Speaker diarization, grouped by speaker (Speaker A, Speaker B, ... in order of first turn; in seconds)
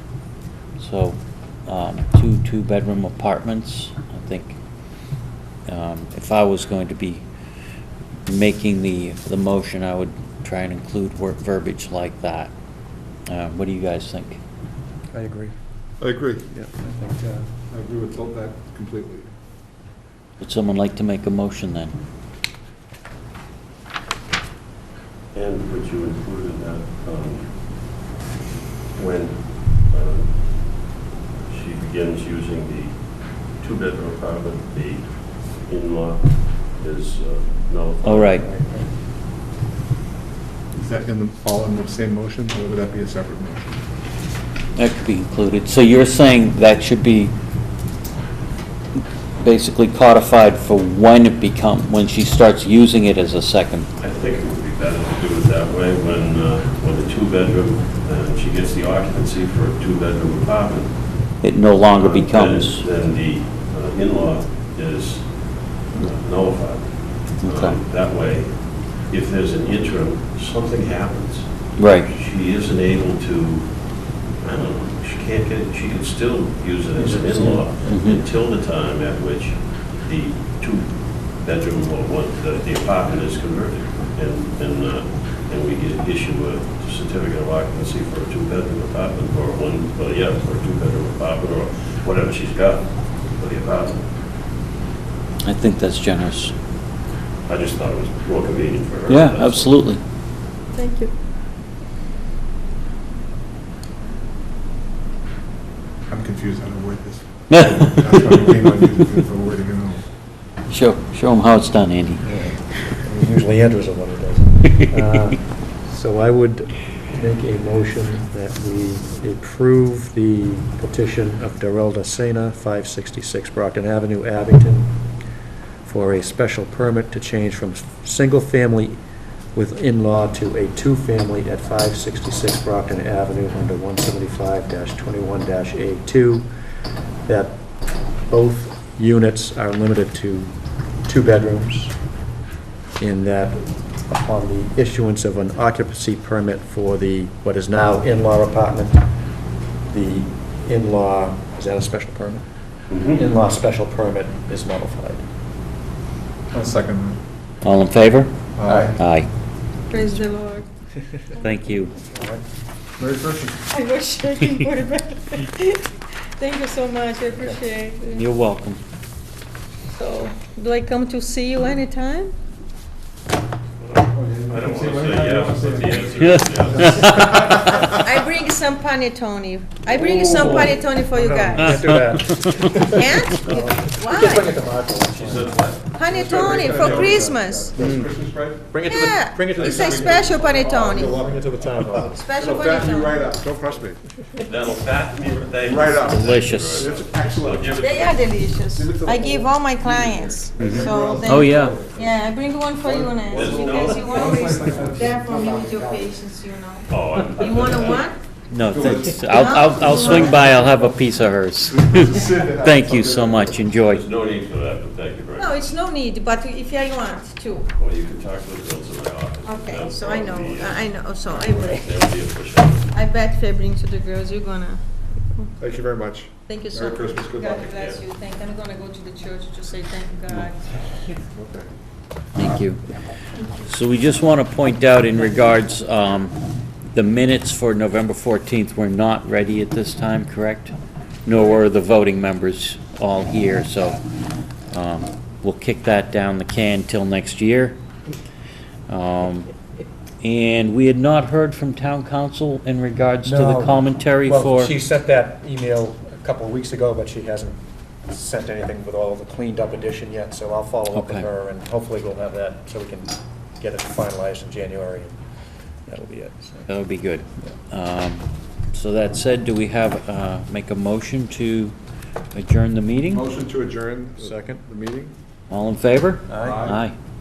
Speaker A: 0.8-4.6, 5.7-7.2, 8.2-12.5, 13.3-14.4, 20.4-21.9, 38.0-38.5, 44.8-47.3, 49.4-53.9, 61.4-62.8, 67.4-67.8, 71.8-72.1, 77.8-78.2, 95.4-96.5, 99.1-100.0, 107.5-108.0, 110.7-112.2, 157.6-158.3, 158.9-159.3, 161.4-161.9, 168.2-168.8, 176.2-177.9, 181.6-182.9, 187.8-188.1, 196.1-196.9, 201.2-201.8, 208.5-214.1, 232.3-232.8, 233.6-236.4, 236.9-240.7, 241.2-244.0, 244.7-247.8, 248.9-249.5, 250.2-254.8, 260.9-261.3, 266.7-271.7, 272.3-273.2, 275.5-276.9
Speaker B: 15.1-15.5, 16.5-17.4, 38.4-38.9, 77.2-77.5, 112.2-124.9, 125.8-129.0, 129.5-136.4, 137.2-137.6, 138.3-140.5, 141.1-141.9, 143.0-149.0, 149.9-152.4, 153.1-155.2, 158.6-158.9, 162.1-162.4, 180.3-187.2, 188.7-190.3, 190.9-192.2, 253.2-265.2, 265.9-266.7, 274.2-274.6, 276.3-276.7
Speaker C: 16.0-16.4, 17.7-19.3, 40.8-43.6, 106.1-110.0, 156.5-157.2, 158.6-158.9, 163.0-163.6, 174.1-178.2, 179.8-180.9, 186.1-188.9, 189.4-194.0, 195.6-202.2, 202.8-206.2, 207.6-207.9, 208.7-210.9, 211.6-213.6, 221.3-221.8, 225.6-227.7, 231.2-231.7, 273.1-275.1, 276.4-276.8
Speaker D: 25.3-27.5, 28.9-38.4, 54.0-94.1, 97.5-99.8, 152.9-153.2, 173.8-177.2, 185.1-185.8, 194.4-198.2, 200.6-200.8, 203.3-204.3, 206.9-208.0, 213.9-215.6, 217.8-221.0, 221.6-222.9
Speaker E: 100.7-101.1, 159.9-160.6, 163.7-168.2, 169.9-172.3, 177.9-181.8, 182.9-184.5, 185.9-187.8, 188.8-191.2, 192.0-193.3, 197.7-208.2, 209.2-210.5, 215.4-217.7, 219.4-221.9, 222.9-225.5, 226.5-230.6